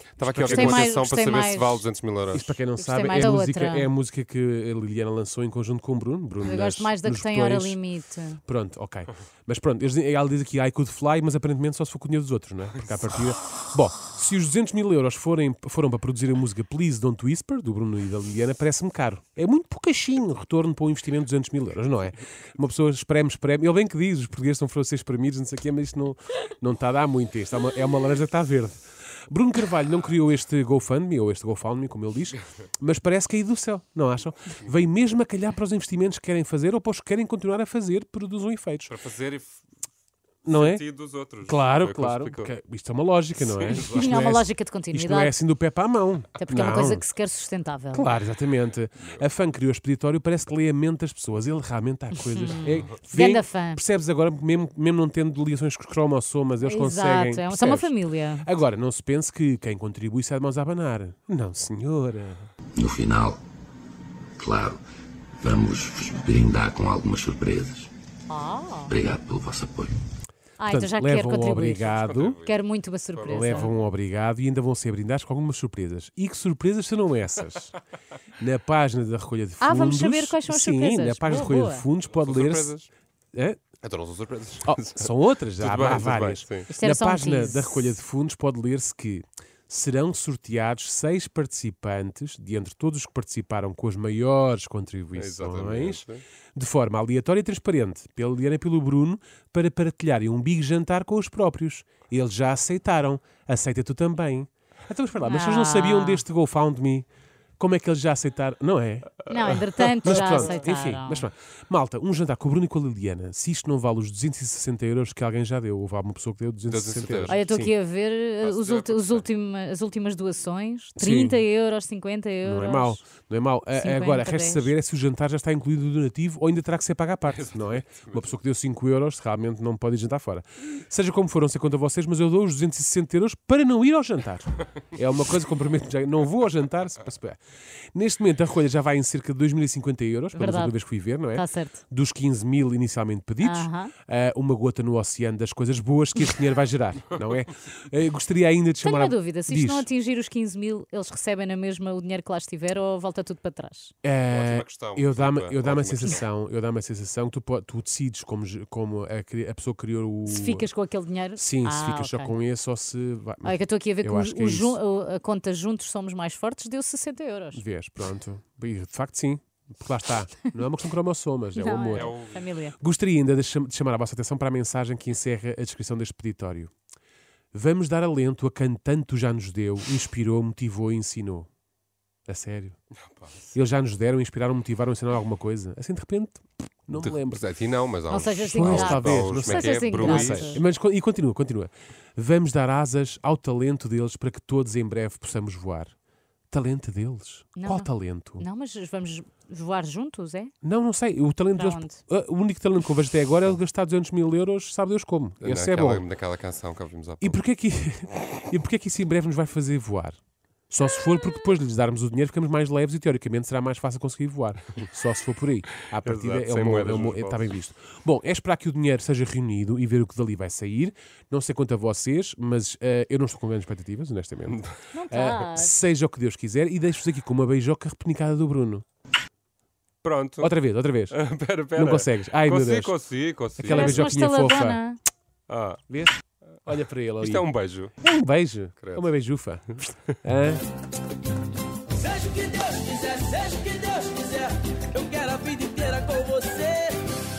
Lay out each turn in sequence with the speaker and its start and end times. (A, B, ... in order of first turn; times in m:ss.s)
0:00.2-0:02.6 A
0:00.2-0:00.9 B
0:00.4-0:01.9 C
0:02.3-0:07.8 B
0:02.8-0:03.9 C
0:06.4-0:08.4 C
0:08.5-0:38.9 B
0:38.9-0:39.6 A
0:40.4-0:47.1 B
0:40.5-0:42.5 A
0:43.6-0:44.1 A
0:43.7-0:45.4 C
0:46.4-0:48.2 C
0:47.9-1:02.5 B
0:52.2-0:53.8 C
0:56.6-0:58.5 C
1:02.8-1:03.4 D
1:04.4-1:04.8 D
1:05.4-1:07.9 D
1:08.3-1:08.9 C
1:08.9-1:10.0 D
1:10.6-1:13.7 C
1:10.7-1:12.4 B
1:11.9-1:12.6 A
1:13.1-1:13.7 A
1:13.3-1:17.8 B
1:18.4-1:22.7 B
1:19.6-1:21.9 C
1:22.1-1:22.9 A
1:23.3-1:23.6 B
1:23.8-1:26.7 A
1:24.7-1:47.1 B
1:26.7-1:28.0 C
1:35.2-1:36.2 A
1:45.2-1:46.2 C
1:47.6-1:57.7 B
1:49.3-1:51.3 C
1:56.7-1:57.7 A
1:57.3-2:03.0 C
1:58.4-1:59.2 A
2:01.0-2:01.4 B
2:02.4-2:17.4 B
2:03.7-2:04.7 C
2:07.9-2:08.3 A
2:17.9-2:29.9 B
2:20.3-2:21.8 C
2:23.4-2:23.9 C
2:28.8-2:33.9 C
2:34.0-2:40.7 B
2:34.3-2:36.2 A
2:40.3-2:42.4 C
2:41.4-2:44.8 B
2:43.4-2:47.6 C
2:47.5-2:52.2 B
2:51.6-2:52.8 C
2:51.9-2:52.4 A
2:52.8-2:56.7 B
2:57.5-3:01.5 B
3:02.3-3:02.8 B
3:03.1-3:03.4 A
3:03.5-3:07.4 B
3:07.0-3:10.6 A
3:08.1-3:10.6 C
3:08.5-3:15.9 B
3:16.5-3:18.4 B
3:17.6-3:20.5 C
3:20.6-3:26.0 B
3:21.5-3:22.0 C
3:25.4-3:27.4 A
3:27.2-3:30.2 B
3:30.7-3:48.8 B
3:36.0-3:37.5 A
3:44.5-3:44.8 A
3:44.9-3:45.7 C
3:50.0-3:50.5 A
3:50.4-3:51.2 B
3:51.1-3:53.9 A
3:51.7-3:53.0 B
3:53.6-3:54.8 B
3:53.6-3:55.0 C
3:55.5-3:55.8 A
3:56.7-3:57.5 B
3:57.2-3:57.9 A
3:58.0-4:00.6 B
4:02.0-4:07.0 E